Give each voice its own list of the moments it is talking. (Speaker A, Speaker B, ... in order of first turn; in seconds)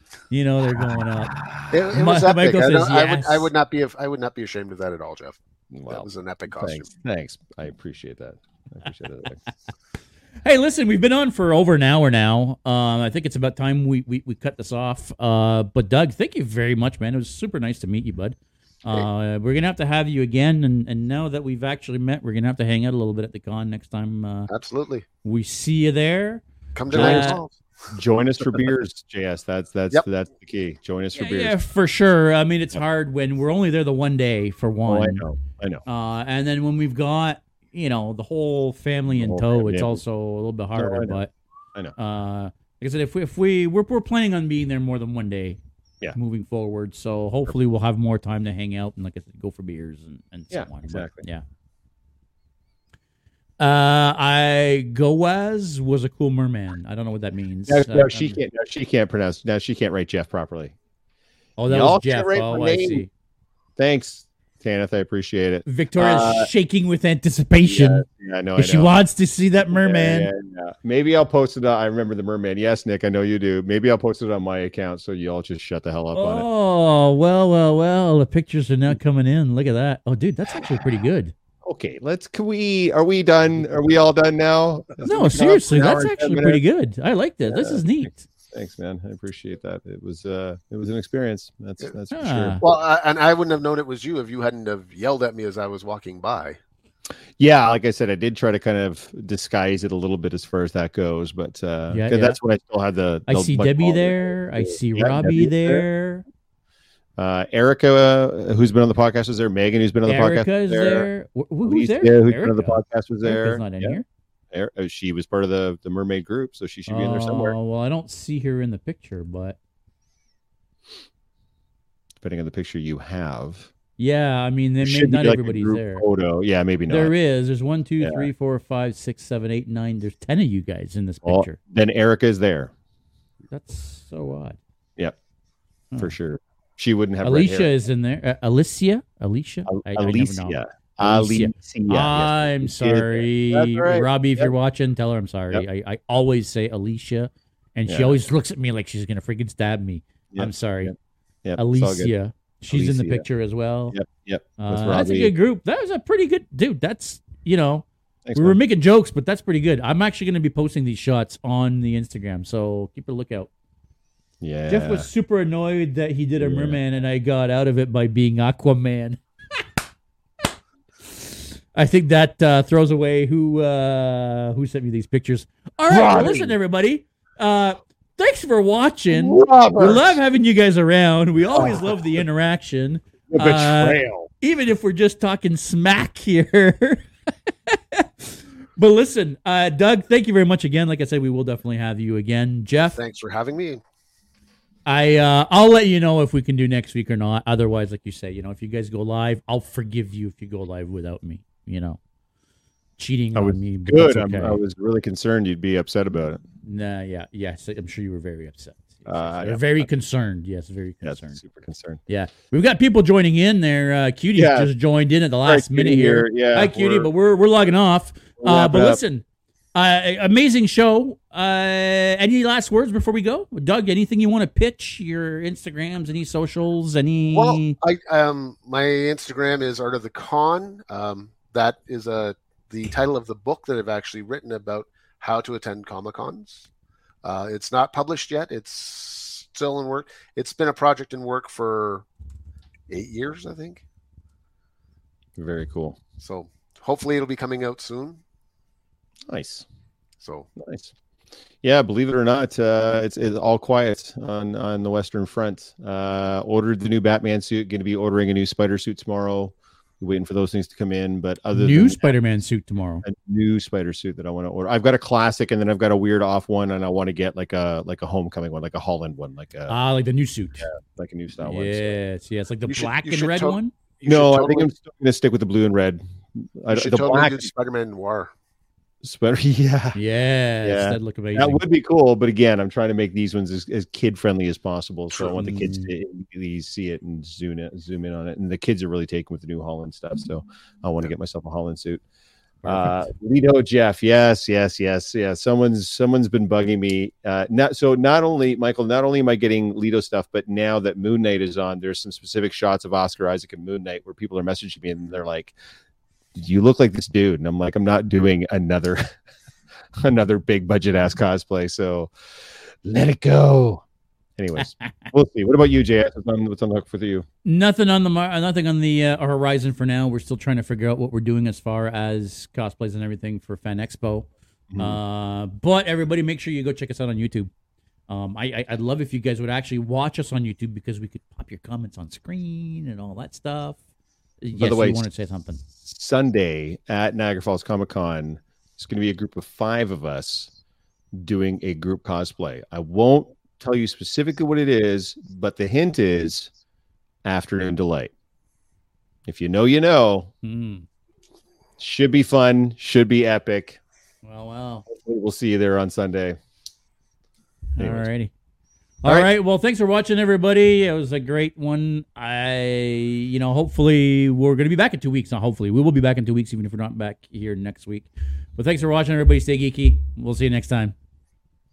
Speaker A: 0.3-1.4, 1.9-3.5, 10.4-24.5, 25.2-27.4, 31.1-35.2, 35.9-41.3, 42.0-45.6, 46.1-51.4, 53.6-58.4, 61.6-63.1, 65.7-68.0, 68.6-70.3, 76.1-81.3, 85.0-88.3, 92.1-92.6, 101.9-102.4, 103.3-106.2, 110.0-114.0, 116.9-119.6, 124.0-126.1, 126.9-131.6, 133.5-134.6, 137.2-150.9, 151.6-154.0, 154.6-163.5, 164.7-169.2, 171.1-193.0, 194.9-202.0, 203.0-204.6, 206.6-211.4, 212.1-227.8, 261.5-263.1, 269.7-270.7, 271.4-273.7, 279.9-281.6, 285.4-285.9, 292.6-293.1, 314.6-315.1, 317.4-327.5, 328.1-333.8, 334.4-335.6, 350.4-350.9, 354.2-354.9, 357.8-358.3, 359.0-370.9
Speaker B: 0.8-1.9, 5.7-9.4, 26.9-27.4, 27.9-31.6, 34.9-35.8, 39.1-40.0, 40.8-41.2, 50.5-51.2, 57.7-60.8, 61.7-63.1, 63.8-66.5, 67.6-68.9, 69.7-76.5, 81.6-86.6, 87.5-87.9, 88.5-92.6, 97.4-105.8, 107.2-111.1, 111.7-114.0, 114.5-117.5, 122.2-123.7, 124.8-127.1, 128.0-128.3, 131.2-132.7, 136.0-137.7, 139.7-144.5, 147.9-148.2, 150.3-150.9, 151.4-152.1, 152.7-153.3, 153.9-155.3, 158.2-158.6, 164.4-165.1, 166.4-166.8, 175.9-176.5, 179.1-180.2, 181.5-182.2, 183.3-184.3, 203.3-206.4, 209.1-209.9, 211.0-212.0, 214.4-214.7, 215.5-217.1, 218.4-219.0, 245.4-246.0, 249.3-249.7, 250.6-250.9, 251.6-262.1, 263.0-269.7, 270.6-272.0, 274.1-277.5, 279.0-280.0, 280.6-292.0, 292.6-305.6, 306.4-309.1, 310.0-312.1, 312.8-313.8, 314.4-317.3, 324.7-325.0, 334.6-335.0, 335.8-340.5, 341.1-346.5, 347.2-348.1, 349.3-350.3, 351.8-353.8, 354.9-356.4, 357.8-358.1
Speaker C: 1.7-6.9, 24.5-25.1, 26.8-28.0, 92.6-96.6, 193.0-193.8, 227.3-236.7, 237.2-242.1, 242.9-243.8, 246.2-248.2, 250.2-250.5, 272.7-274.7, 276.7-278.3